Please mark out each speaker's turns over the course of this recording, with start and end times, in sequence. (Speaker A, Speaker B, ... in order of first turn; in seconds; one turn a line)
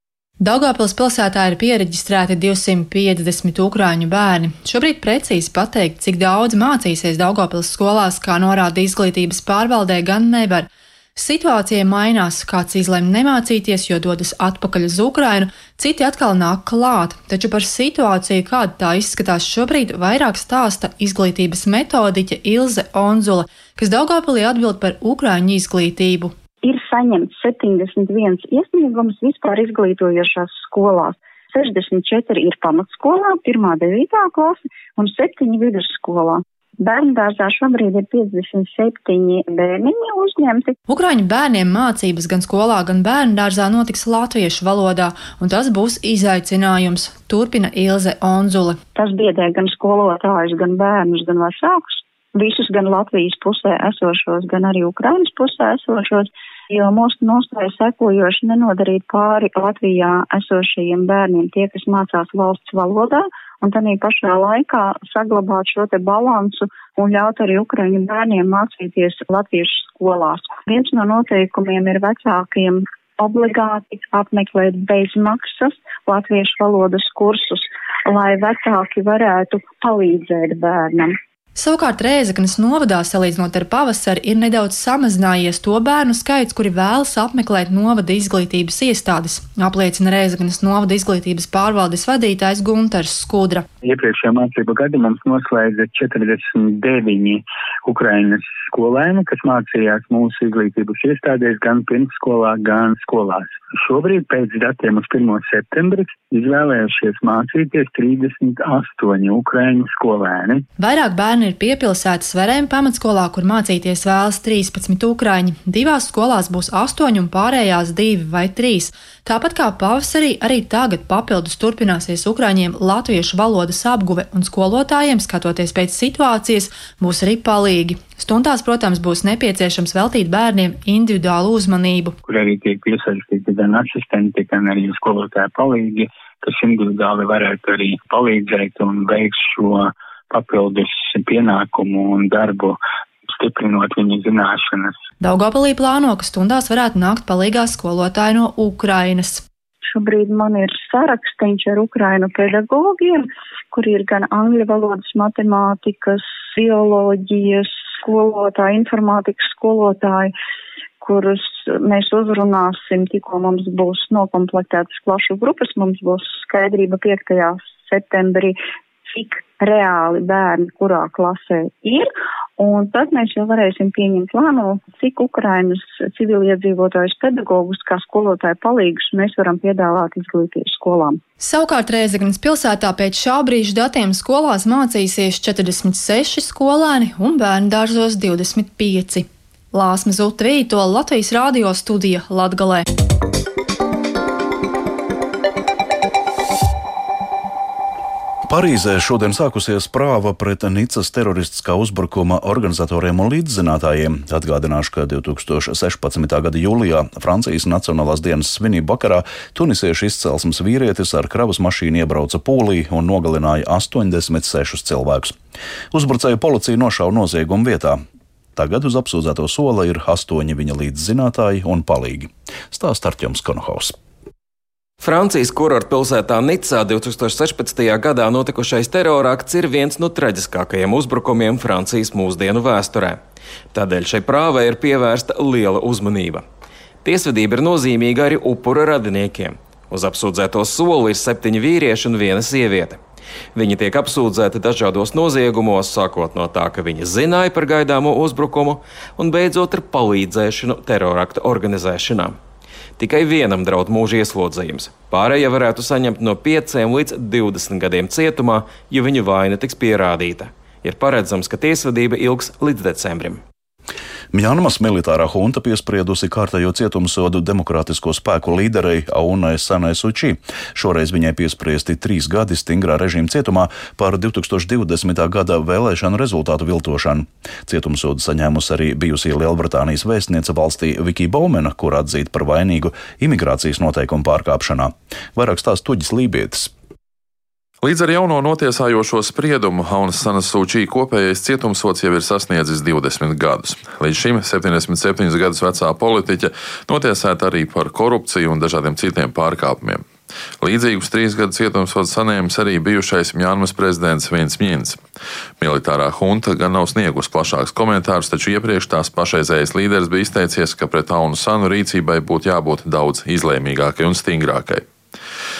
Speaker A: 0.4-26.3
Speaker B: 26.6-40.8
Speaker A: 40.9-48.8
Speaker B: 49.0-81.2
Speaker A: 81.5-93.7
Speaker C: 93.8-110.7
Speaker A: 110.8-132.2
Speaker C: 132.2-145.0
Speaker A: 145.2-149.4
Speaker B: 149.9-160.3
Speaker B: 161.0-181.2
Speaker A: 181.4-192.8
Speaker D: 198.5-215.3
Speaker D: 215.9-218.0
Speaker D: 218.6-224.0
Speaker E: 225.0-233.2
Speaker E: 233.7-236.4
Speaker E: 237.0-243.0
Speaker E: 243.5-252.4
Speaker E: 253.0-263.4
Speaker D: 264.3-286.7
Speaker F: 287.8-300.0
Speaker F: 300.6-305.0
Speaker F: 305.6-314.9